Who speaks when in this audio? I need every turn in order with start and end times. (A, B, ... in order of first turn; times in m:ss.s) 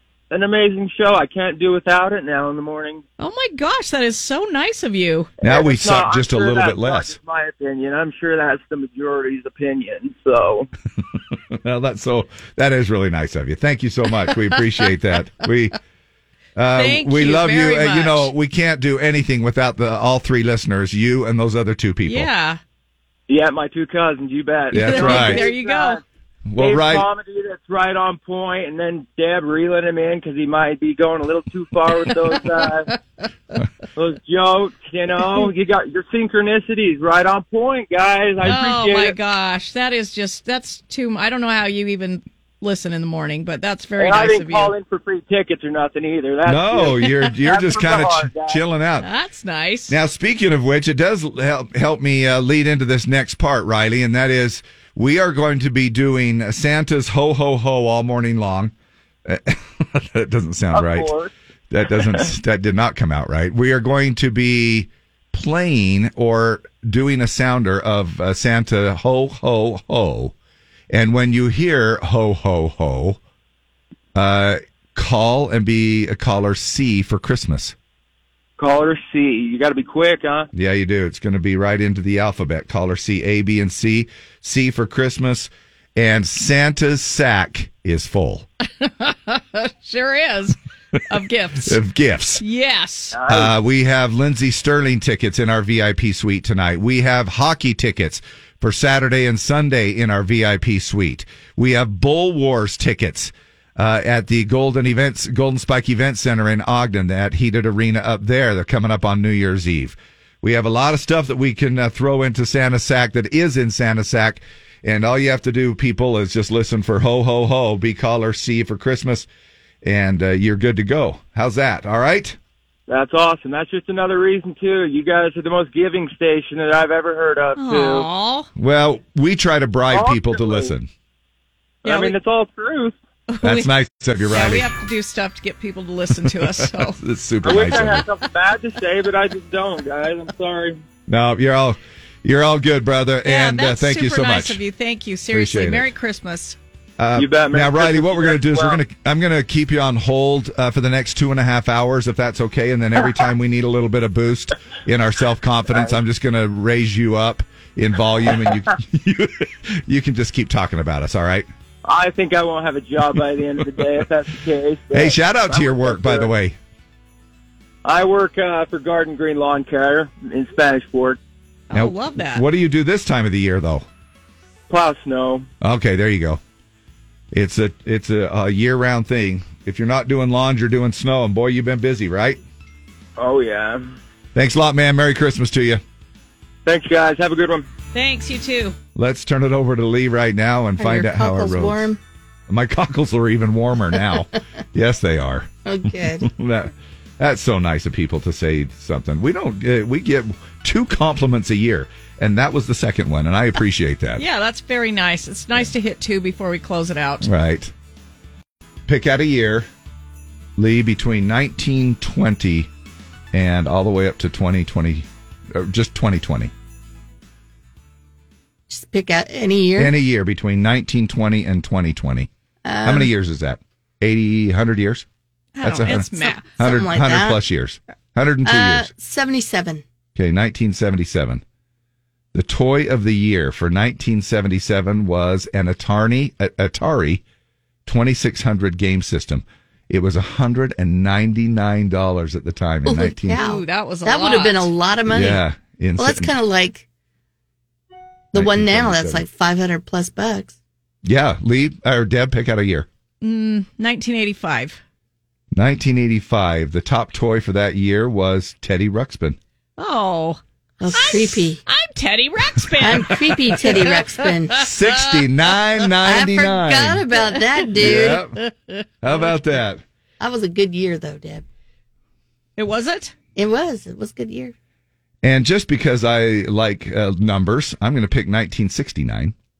0:00.3-0:03.0 A
0:03.2-0:05.3 B
0:05.4-0:07.2 C
0:05.4-0:10.7 A
0:11.3-0:15.7 C
0:16.6-0:22.3 C
0:16.7-0:18.3 B
0:22.0-0:22.6 B
0:23.3-0:26.0 A
0:24.7-0:26.0 B
0:24.7-0:25.5 C
0:26.5-0:27.1 C
0:26.6-0:32.9 A
0:34.0-0:39.2 A
0:38.4-0:44.7 B
0:44.0-0:48.6 A
0:46.4-0:49.1 C
0:49.0-0:50.0 B
0:49.9-0:58.7 C
0:59.2-1:01.1 C
1:00.7-1:01.3 A
1:01.7-1:10.3 C
1:01.9-1:02.3 A
1:10.9-1:13.2 C
1:14.1-1:17.7 C
1:18.6-1:20.5 A
1:20.5-1:28.5 C
1:28.8-1:30.6 B
1:31.1-1:31.8 B
1:31.6-1:32.4 C
1:32.4-1:33.2 B
1:33.1-1:33.5 A
1:33.3-1:59.3 C
1:59.8-2:02.4 C
2:02.9-2:08.1 A
2:07.6-2:08.5 B
2:08.6-2:10.9 C
2:09.9-2:10.7 A
2:11.8-2:12.9 A
2:11.8-2:12.2 B
2:13.3-2:13.7 B
2:13.4-2:14.7 C
2:14.3-2:17.0 B
2:16.2-2:18.0 C
2:17.4-2:20.8 A
2:21.1-2:24.6 C
2:23.2-2:26.6 B
2:25.3-2:25.9 C
2:27.0-2:41.5 C
2:27.1-2:28.8 A
2:41.8-2:46.3 A
2:44.9-2:46.6 C
2:47.8-2:51.2 A
2:51.7-2:52.4 B
2:51.7-2:53.8 C
2:54.7-2:55.5 A
2:55.6-2:56.4 C
2:57.3-3:02.4 C
3:03.2-3:03.9 A
3:04.3-3:05.8 C
3:06.6-3:07.6 A
3:07.9-3:08.8 B
3:08.9-3:11.9 C
3:10.8-3:12.0 D
3:12.5-3:15.5 C
3:15.6-3:16.3 D
3:16.1-3:24.2 C
3:24.2-3:27.3 B
3:27.2-3:27.7 C
3:28.8-3:29.7 C
3:30.6-3:32.7 C
3:33.3-3:36.5 C
3:38.7-3:39.9 D
3:39.8-3:42.3 C
3:42.6-3:43.1 D
3:42.8-3:45.0 C
3:45.5-3:46.4 B
3:45.6-3:48.9 C
3:46.4-3:47.4 D
3:48.4-3:49.8 D
3:50.1-3:51.4 C
3:52.3-3:57.2 C
3:57.8-4:03.4 C
4:02.8-4:05.4 D
4:03.3-4:04.7 B
4:05.1-4:06.3 C
4:06.0-4:06.8 D
4:08.3-4:10.6 D
4:08.3-4:09.2 C
4:11.0-4:12.9 C
4:13.2-4:14.8 B
4:15.5-4:19.4 C
4:19.8-4:20.4 B
4:20.8-4:21.6 D
4:20.9-4:24.0 B
4:22.8-4:24.7 D
4:24.6-4:27.1 C
4:26.0-4:28.2 D
4:27.8-4:28.4 C
4:29.0-4:29.8 C
4:30.2-4:31.4 D
4:32.6-4:33.1 B
4:33.4-4:34.5 D
4:35.2-4:39.3 C